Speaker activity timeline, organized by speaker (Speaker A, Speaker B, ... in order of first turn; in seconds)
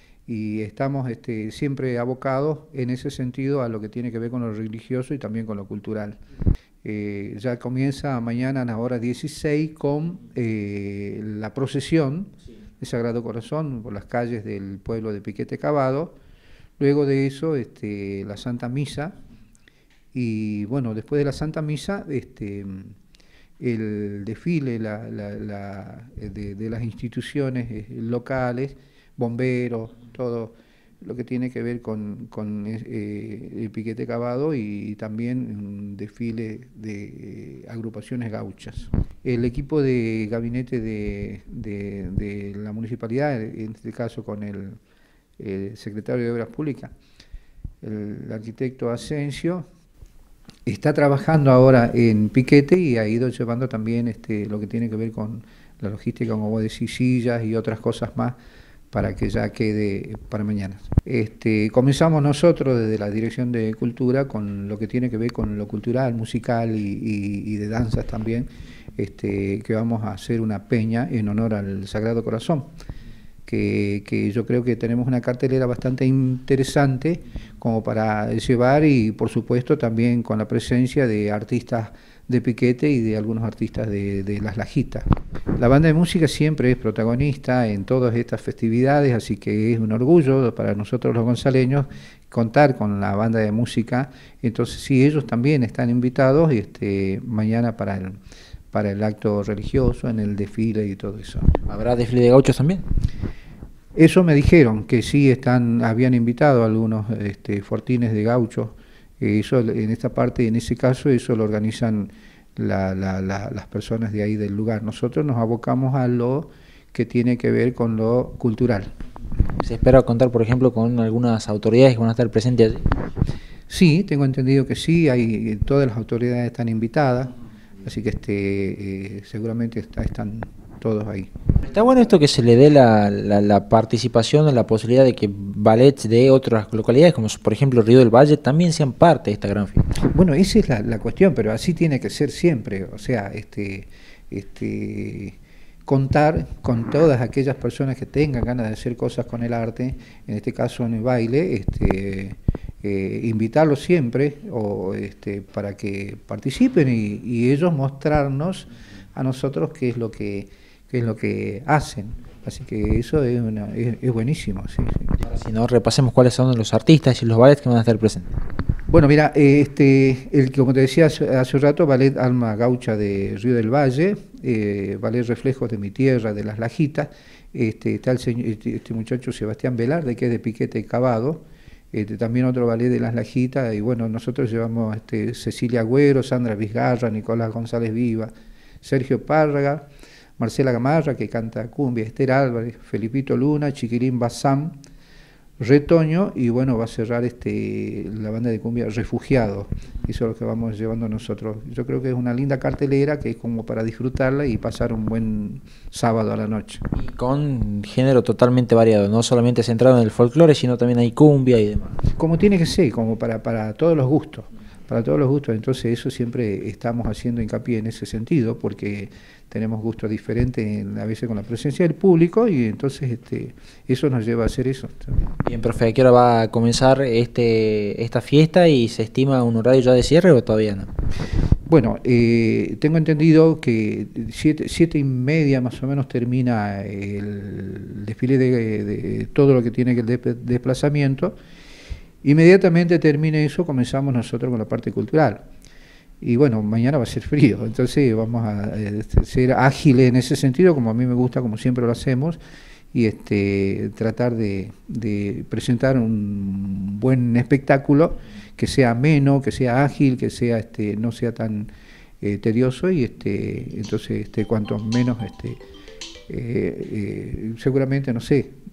Speaker A: 0.3-6.2, 6.8-16.1, 16.8-19.1, 20.1-22.9, 23.6-44.8, 45.4-46.9, 47.8-49.6, 50.7-58.4, 58.9-72.7, 73.5-98.2, 98.7-101.6, 104.0-118.9, 123.7-127.3, 127.8-131.3, 140.0-165.2, 168.9-188.3, 188.8-189.9, 190.4-194.7, 195.6-206.8, 212.1-225.3, 231.7-241.3, 242.2-245.4, 246.2-252.4, 252.9-261.7, 262.2-265.6, 266.3-268.5
Speaker B: 101.7-102.8, 119.6-122.9, 131.7-139.9, 165.2-168.3, 206.9-212.0, 225.4-230.9